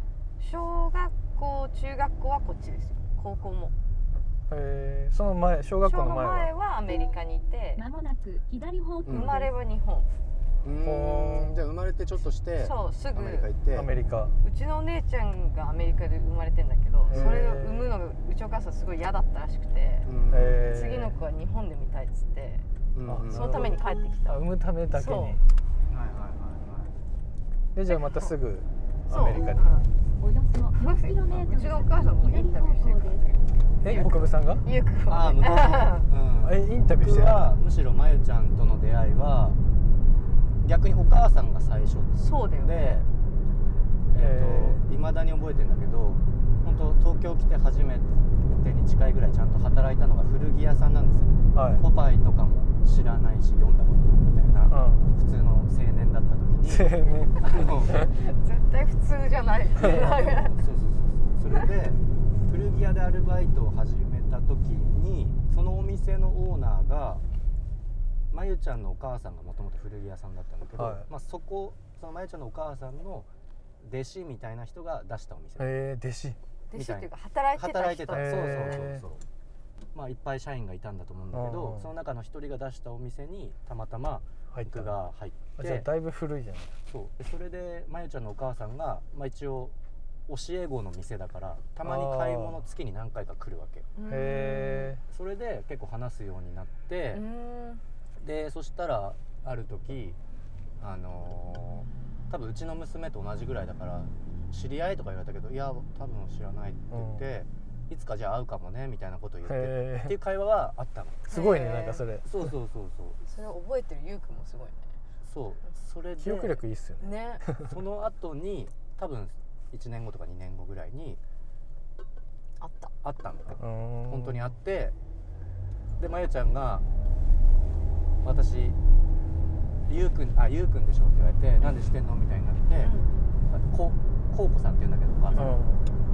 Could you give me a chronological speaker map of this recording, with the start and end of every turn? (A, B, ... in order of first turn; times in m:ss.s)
0:00.4-0:03.7 A
0:04.5-0:06.5 B
0:05.8-0:07.8 A
0:07.8-0:09.5 C
0:09.0-0:09.4 D
0:09.1-0:10.1 A
0:10.6-0:13.9 D
0:10.8-0:11.6 B
0:12.6-0:13.5 A
0:13.7-0:14.4 B
0:14.4-0:20.1 A
0:17.1-0:17.9 B
0:17.1-0:17.4 D
0:20.0-0:20.7 D
0:20.3-0:21.1 B
0:20.6-0:22.6 A
0:22.9-0:23.8 D
0:23.0-0:25.4 B
0:23.3-0:25.4 A
0:25.9-0:27.0 D
0:27.7-0:29.8 B
0:27.9-0:28.4 A
0:29.1-0:29.9 A
0:30.2-0:33.2 C
0:30.7-0:36.1 A
0:33.8-0:34.6 B
0:33.8-0:34.2 D
0:35.1-0:39.6 D
0:36.4-0:37.4 B
0:40.6-0:43.1 D
0:42.1-0:43.0 A
0:44.1-0:58.0 D
0:44.2-0:44.8 B
0:51.5-0:51.8 B
0:54.7-0:55.1 B
0:56.6-0:57.4 B
0:57.4-1:00.6 A
0:59.8-1:07.2 D
1:08.3-1:13.3 D
1:10.8-1:11.0 B
1:13.8-1:15.8 D
1:15.6-1:16.4 B
1:16.7-1:18.8 A
1:16.7-1:19.2 D
1:18.1-1:19.0 B
1:19.9-1:25.9 D
1:21.3-1:21.9 B
1:24.5-1:25.0 B
1:25.6-1:26.7 B
1:26.9-1:29.7 D
1:30.3-1:33.9 D
1:31.8-1:32.6 B
1:34.0-1:35.0 A
1:34.1-1:35.0 B
1:35.1-1:37.2 D
1:37.1-1:37.8 A
1:38.2-1:40.2 D
1:40.8-1:51.3 D
1:46.9-1:47.3 B
1:49.4-1:50.2 B
1:51.3-1:52.0 A
1:51.3-1:52.5 B
1:52.2-1:53.2 D
1:53.2-1:54.9 A
1:55.2-1:56.6 D
1:56.2-1:57.8 B
1:57.0-1:57.4 A
1:57.6-2:01.2 D
2:02.6-2:02.9 A
2:03.0-2:04.9 D
2:03.6-2:04.6 B
2:06.0-2:06.8 D
2:08.2-2:08.8 D
2:09.8-2:12.9 D
2:12.8-2:13.2 A
2:13.5-2:15.5 D
2:15.3-2:15.6 A
2:15.4-2:15.9 B